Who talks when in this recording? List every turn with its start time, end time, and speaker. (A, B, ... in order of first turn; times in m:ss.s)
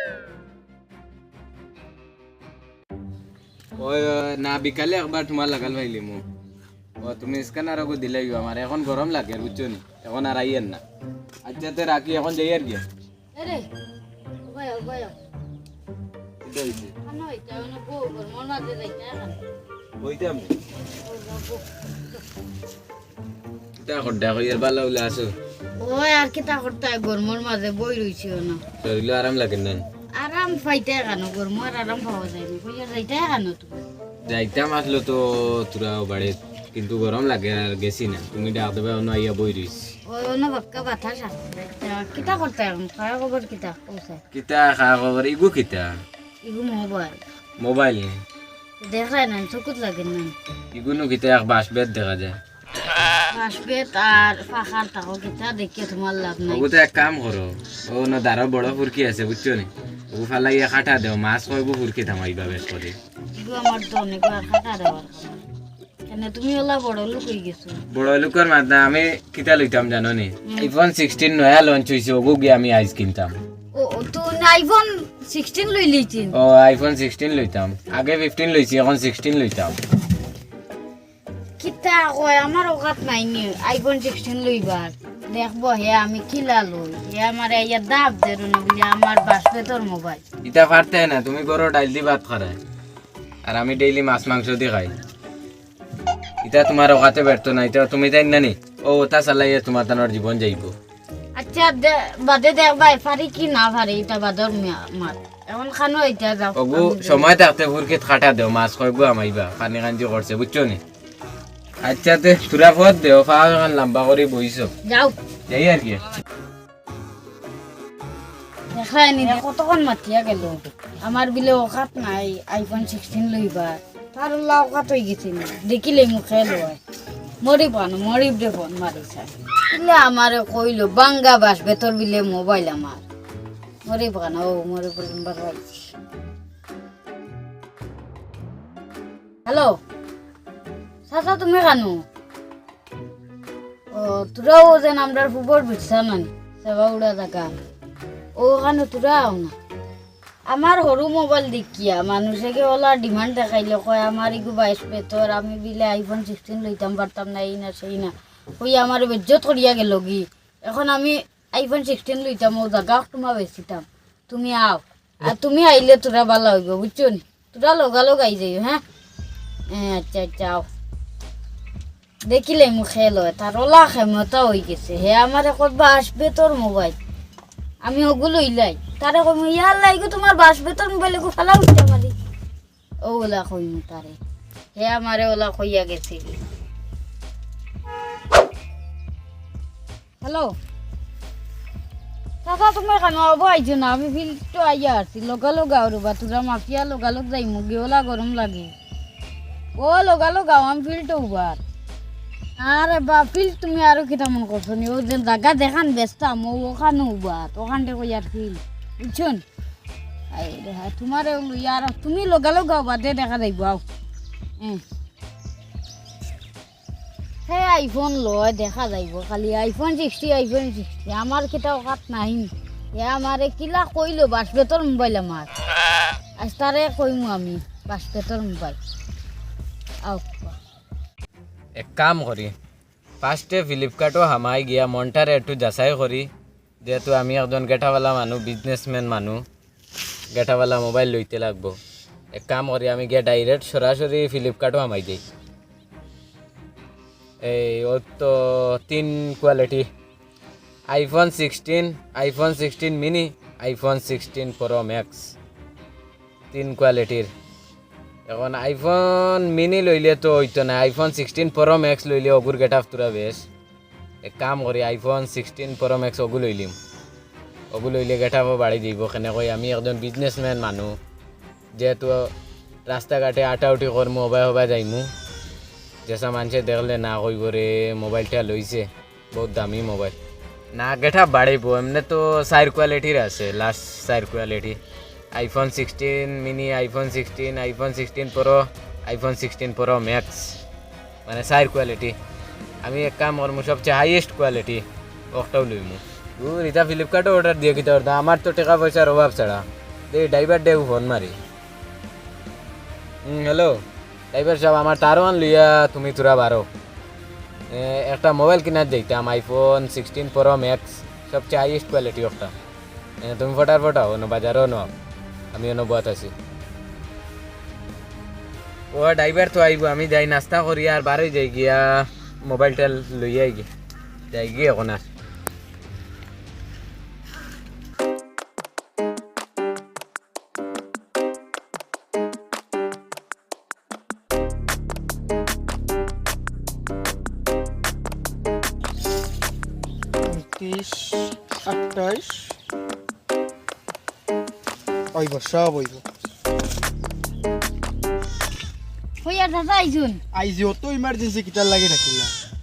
0:03.8-0:06.2 A
0:07.0-0:10.8 A
0:11.4-0:12.8 A
0:13.3-0:13.7 B
0:14.4-0:15.1 B
0:16.4-0:16.9 A
0:17.0-0:19.4 B
0:20.0-0:20.5 A
0:21.0-0:21.6 B
0:23.8-0:25.3 A
0:25.8-0:28.6 B
0:28.8-0:29.8 A
0:30.2-0:33.8 B
0:34.3-0:39.9 A
0:40.0-0:44.2 B
0:44.3-0:45.9 A
0:46.4-0:47.2 B
0:47.6-0:48.1 A
0:48.8-0:50.3 B
0:50.7-0:52.3 A
0:53.3-0:56.7 B
0:56.5-1:02.9 A
1:03.3-1:05.4 B
1:06.1-1:07.8 B
1:07.9-1:13.3 A
1:13.7-1:16.3 B
1:16.3-1:19.8 A
1:21.6-1:30.2 B
1:30.4-1:32.6 A
1:33.4-1:34.9 A
1:36.4-1:40.7 A
1:41.4-1:47.3 B
1:46.6-1:50.8 A
1:51.8-1:54.7 A
1:54.8-1:55.1 B
1:55.5-1:56.0 A
1:58.7-2:06.8 B
2:07.4-2:13.0 B
2:13.8-2:15.9 B
2:19.4-2:19.8 B
2:21.1-2:22.0 B
2:23.9-2:27.5 B
2:28.4-2:29.5 B
2:30.5-2:48.8 B
2:49.7-2:50.7 B
2:52.3-2:57.0 B
2:57.8-3:02.1 B
3:03.0-3:04.2 B
3:04.7-3:06.4 B
3:10.2-3:10.5 B
3:12.4-3:18.7 B
3:19.8-3:21.6 B
3:22.6-3:29.4 B
3:30.3-3:33.8 B
3:37.5-3:45.5 B
3:46.4-3:48.8 B
3:50.0-3:50.6 B
3:51.8-3:52.5 A
3:53.2-3:56.3 A
3:56.8-3:59.4 A
4:00.3-4:01.8 A
4:02.3-4:05.2 A
4:07.4-4:09.9 A
4:10.9-4:15.3 A
4:16.5-4:17.3 A
4:18.3-4:23.4 A
4:24.2-4:26.8 A
4:27.7-4:30.9 A
4:31.8-4:32.3 A
4:32.9-4:35.1 A
4:36.0-4:40.1 A
4:40.7-4:44.8 A
4:45.3-4:50.6 A
4:51.3-4:52.1 A
4:52.8-5:01.3 A
5:03.2-5:03.8 A
5:04.3-5:06.7 A
5:07.7-5:12.5 A
5:13.2-5:14.9 A
5:15.5-5:16.3 A
5:18.9-5:23.7 A
5:24.3-5:25.0 A
5:40.3-5:42.6 C
5:45.1-5:46.0 C
5:49.2-5:50.2 B
5:50.3-5:52.3 C